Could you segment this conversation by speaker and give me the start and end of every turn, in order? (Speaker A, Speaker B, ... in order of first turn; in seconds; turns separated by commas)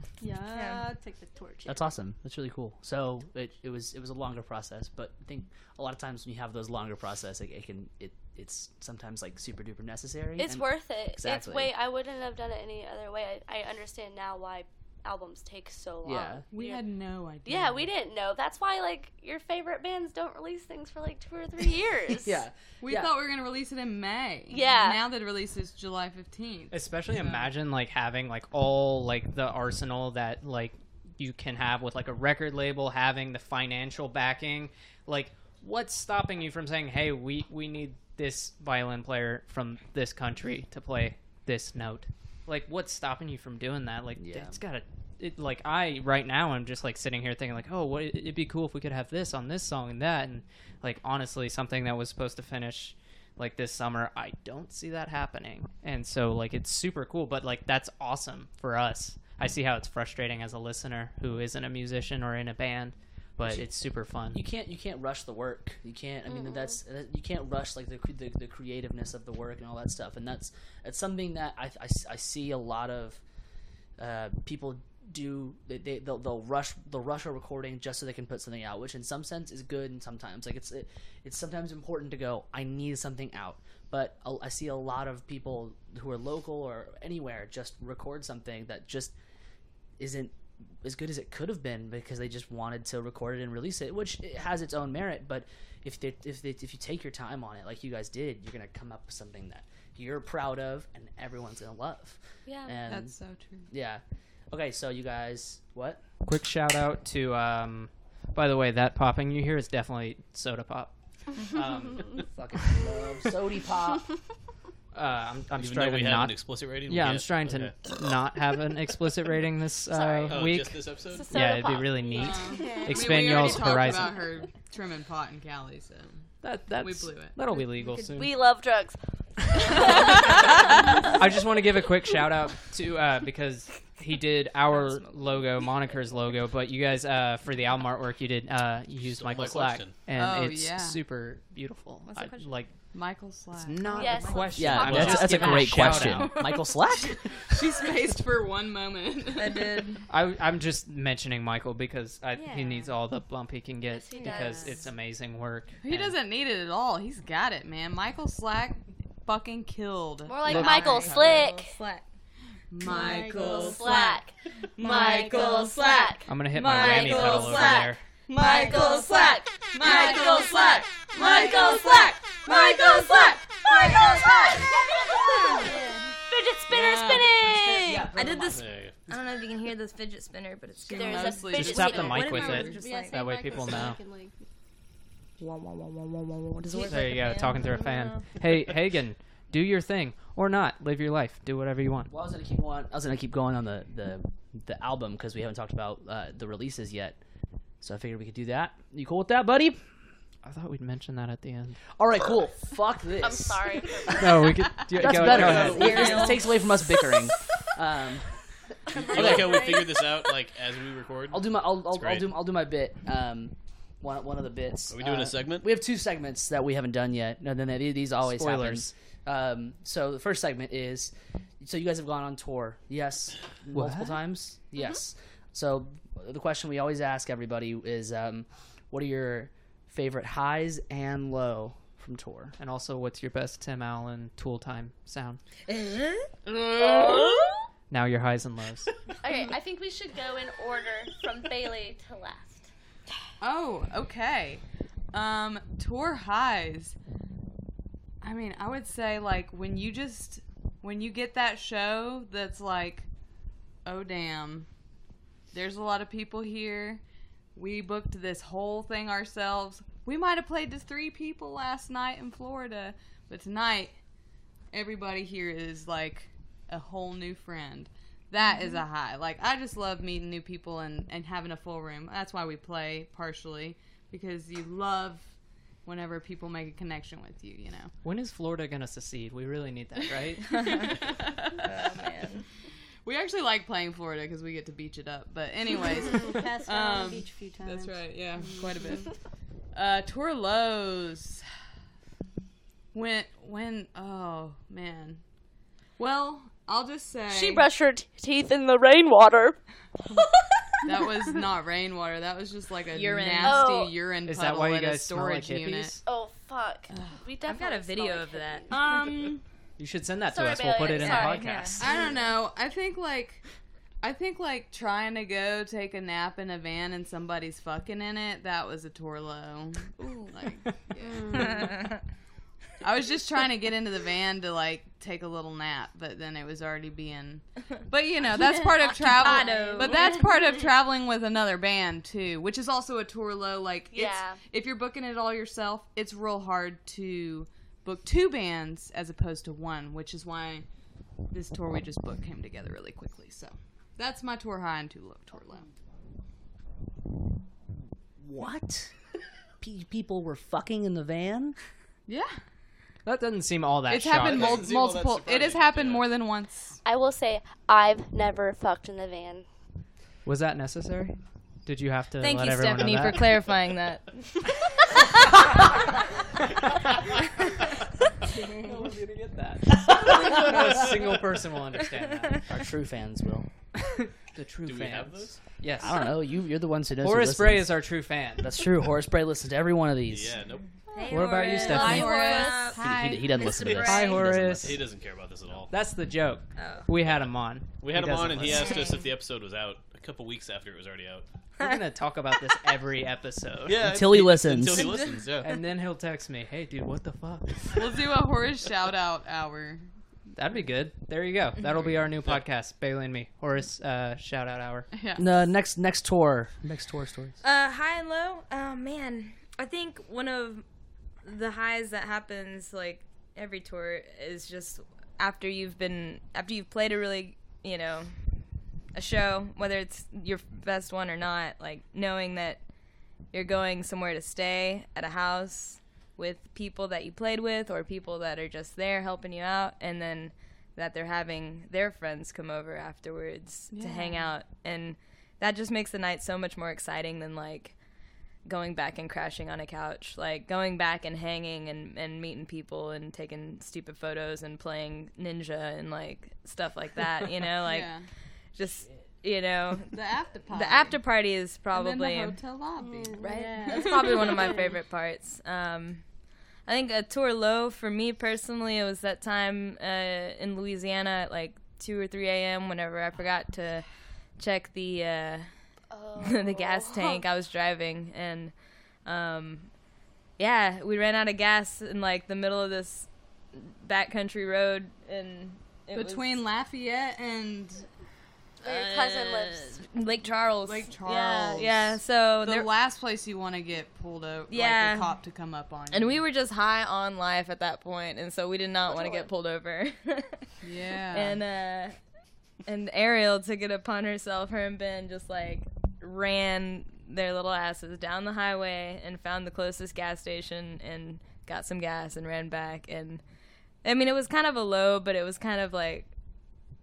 Speaker A: 0.2-1.8, Speaker B: 0.5-0.8, Speaker C: 1.6-11.7, Speaker D: 10.4-22.4, Speaker C: 16.0-16.4, Speaker E: 16.5-17.9, Speaker C: 22.2-23.1, Speaker E: 22.8-27.5, Speaker D: 24.5-25.0, Speaker F: 26.7-64.4, Speaker C: 44.2-44.6, Speaker C: 63.4-73.2, Speaker D: 66.3-66.8, Speaker C: 74.0-89.1, Speaker C: 90.0-103.2, Speaker D: 102.5-102.8, Speaker E: 102.8-103.7, Speaker C: 103.7-106.0, Speaker F: 106.2-112.2, Speaker C: 112.2-114.1, Speaker F: 114.9-124.1, Speaker G: 115.5-117.8, Speaker D: 119.9-123.7, Speaker G: 120.3-121.4, Speaker E: 122.1-127.4, Speaker A: 122.6-123.1, Speaker F: 126.4-128.3, Speaker B: 127.4-128.2, Speaker D: 128.2-130.7, Speaker F: 131.1-146.3, Speaker B: 134.6-136.2, Speaker G: 138.9-140.1, Speaker E: 140.1-141.0, Speaker B: 142.0-142.7, Speaker E: 142.9-144.3, Speaker B: 143.8-144.7, Speaker D: 143.9-145.8, Speaker C: 144.6-147.4, Speaker G: 144.8-145.2, Speaker E: 145.0-146.1, Speaker B: 146.1-146.8, Speaker E: 147.4-149.9, Speaker B: 149.3-150.1, Speaker F: 150.1-156.2, Speaker B: 152.3-152.9, Speaker D: 153.9-154.8, Speaker B: 154.1-154.8, Speaker E: 155.8-161.5, Speaker D: 160.2-161.8, Speaker F: 160.5-160.8, Speaker B: 160.5-162.1, Speaker E: 162.7-164.2, Speaker B: 162.8-163.8, Speaker A: 162.9-163.8, Speaker D: 163.3-175.7, Speaker E: 164.8-166.1, Speaker B: 164.8-174.0, Speaker A: 165.0-165.5, Speaker F: 166.2-168.0, Speaker E: 166.8-167.2, Speaker E: 168.3-174.7, Speaker A: 168.4-169.0, Speaker B: 175.3-175.7, Speaker A: 175.6-176.1, Speaker D: 176.3-178.1, Speaker E: 176.7-177.4, Speaker B: 177.2-183.8, Speaker C: 177.8-178.7, Speaker G: 178.5-179.4, Speaker E: 180.8-182.8, Speaker D: 180.9-182.5, Speaker F: 181.5-184.0, Speaker A: 182.7-184.3, Speaker B: 186.6-188.2, Speaker F: 186.8-192.1, Speaker C: 192.1-197.2, Speaker C: 197.8-199.8, Speaker F: 200.4-201.8, Speaker C: 201.9-204.3, Speaker D: 203.2-204.3, Speaker F: 204.2-206.2, Speaker C: 204.9-209.7, Speaker G: 205.0-206.3, Speaker B: 205.7-207.3, Speaker G: 208.9-212.3, Speaker D: 209.1-209.8, Speaker C: 211.3-232.6, Speaker G: 214.9-215.7, Speaker F: 218.2-218.9, Speaker F: 223.7-224.2, Speaker F: 232.6-235.4, Speaker B: 235.7-237.2, Speaker D: 236.5-237.5, Speaker F: 237.9-238.9, Speaker D: 239.2-242.7, Speaker E: 243.4-246.9, Speaker E: 248.2-253.1, Speaker E: 253.8-254.7, Speaker E: 255.5-257.0, Speaker E: 257.5-264.1, Speaker E: 264.7-277.9, Speaker F: 278.0-280.7, Speaker E: 281.2-281.7, Speaker B: 281.6-282.4, Speaker E: 283.0-289.2, Speaker A: 286.1-289.1, Speaker E: 289.7-291.5, Speaker E: 292.9-295.2, Speaker E: 296.0-297.7, Speaker D: 297.3-301.2, Speaker E: 300.8-306.0, Speaker B: 302.9-303.7, Speaker D: 303.4-304.0, Speaker F: 304.2-306.0, Speaker D: 306.0-309.3, Speaker E: 306.9-307.2, Speaker B: 307.4-308.8, Speaker E: 308.7-309.4, Speaker F: 309.8-311.8, Speaker D: 310.3-312.0, Speaker B: 310.9-312.2, Speaker E: 311.8-313.4, Speaker E: 314.0-321.6, Speaker B: 320.0-320.3, Speaker A: 321.0-321.6, Speaker B: 321.3-322.0, Speaker E: 322.8-340.7, Speaker A: 328.4-328.7, Speaker B: 328.8-330.3, Speaker A: 329.2-330.2, Speaker D: 329.5-329.9, Speaker D: 333.9-334.4, Speaker E: 341.3-345.7, Speaker C: 348.2-348.9, Speaker C: 349.6-351.6, Speaker E: 352.1-352.4, Speaker F: 353.0-354.6, Speaker E: 353.9-356.8, Speaker G: 354.2-356.4, Speaker D: 356.8-359.4, Speaker F: 360.2-363.3, Speaker B: 362.2-364.5, Speaker A: 368.4-369.0, Speaker F: 368.6-372.5, Speaker C: 369.9-370.9, Speaker C: 372.5-373.7, Speaker F: 374.0-376.1, Speaker G: 374.6-375.7, Speaker C: 375.8-380.4, Speaker F: 377.0-378.5, Speaker G: 380.1-380.7, Speaker B: 380.6-384.2, Speaker F: 381.1-382.2, Speaker E: 381.4-383.3, Speaker D: 381.5-382.7, Speaker C: 382.8-384.9, Speaker G: 383.5-384.0, Speaker F: 383.8-385.0, Speaker G: 384.5-386.0, Speaker F: 385.7-388.8, Speaker B: 386.5-386.9, Speaker G: 386.9-391.3, Speaker B: 388.5-389.1, Speaker F: 391.6-393.8, Speaker G: 393.6-395.5, Speaker C: 393.8-395.0, Speaker B: 394.8-395.2, Speaker F: 395.4-397.9, Speaker E: 397.7-399.9, Speaker F: 400.3-404.9, Speaker E: 404.9-405.5, Speaker C: 405.2-407.4, Speaker B: 407.4-410.6, Speaker B: 411.2-452.4, Speaker E: 433.7-434.4, Speaker E: 447.6-448.1, Speaker E: 449.9-451.0, Speaker E: 451.7-454.7, Speaker A: 452.8-454.8, Speaker B: 453.2-465.6, Speaker D: 465.9-467.2, Speaker B: 466.2-469.7, Speaker B: 470.4-476.4, Speaker E: 475.9-477.9, Speaker D: 478.6-479.8, Speaker B: 478.6-482.7, Speaker E: 480.6-486.2, Speaker B: 484.5-485.2, Speaker B: 485.9-506.1, Speaker D: 488.8-489.3, Speaker E: 490.6-491.4